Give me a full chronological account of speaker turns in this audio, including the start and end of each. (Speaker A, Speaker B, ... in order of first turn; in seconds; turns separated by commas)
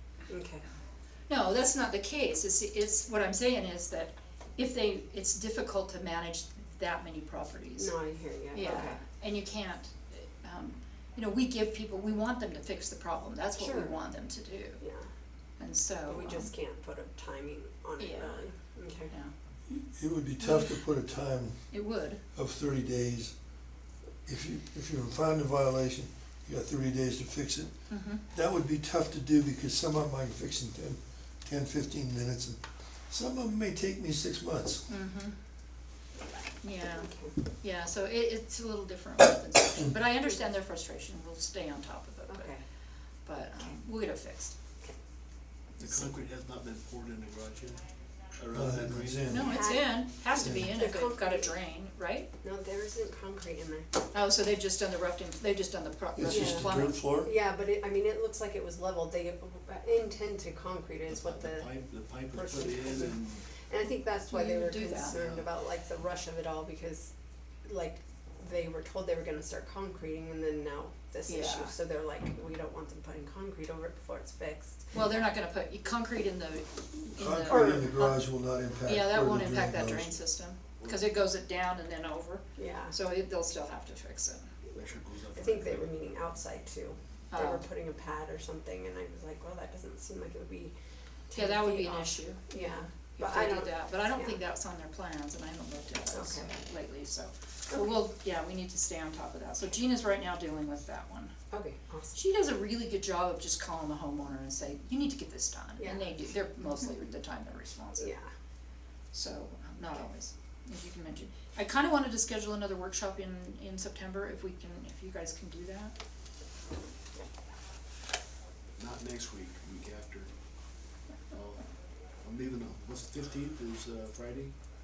Speaker A: 0.3-0.7, Speaker B: 1.3-8.0, Speaker A: 7.7-9.0, Speaker B: 8.5-14.8, Speaker A: 13.6-15.1, Speaker B: 15.6-16.5, Speaker A: 16.0-19.1, Speaker B: 18.0-18.6, Speaker C: 19.7-23.4, Speaker B: 20.4-20.8, Speaker B: 21.7-22.2, Speaker C: 24.2-34.9, Speaker B: 27.9-28.2, Speaker B: 34.9-35.4, Speaker B: 36.6-42.6, Speaker A: 36.8-37.5, Speaker A: 42.2-42.6, Speaker B: 43.2-44.5, Speaker D: 45.8-49.5, Speaker C: 48.5-49.5, Speaker B: 49.3-52.3, Speaker A: 49.4-51.6, Speaker C: 50.4-50.7, Speaker A: 52.4-54.0, Speaker B: 54.1-57.0, Speaker C: 56.1-57.3, Speaker A: 56.3-61.7, Speaker D: 61.1-63.6, Speaker A: 62.3-67.1, Speaker B: 64.3-65.1, Speaker D: 65.0-65.5, Speaker A: 67.6-75.2, Speaker B: 71.2-71.8, Speaker B: 74.9-78.2, Speaker C: 77.2-80.1, Speaker A: 77.5-77.9, Speaker B: 78.8-84.5, Speaker A: 82.5-83.0, Speaker D: 84.7-85.9, Speaker A: 85.3-90.7, Speaker B: 87.3-87.7, Speaker A: 91.3-94.4, Speaker B: 91.3-92.5, Speaker B: 93.2-101.3, Speaker A: 96.1-96.6, Speaker A: 97.7-97.9, Speaker A: 101.5-102.2, Speaker B: 102.1-108.1, Speaker A: 105.8-106.2, Speaker A: 107.9-108.3, Speaker B: 109.1-115.9, Speaker D: 118.8-120.3, Speaker D: 121.3-124.6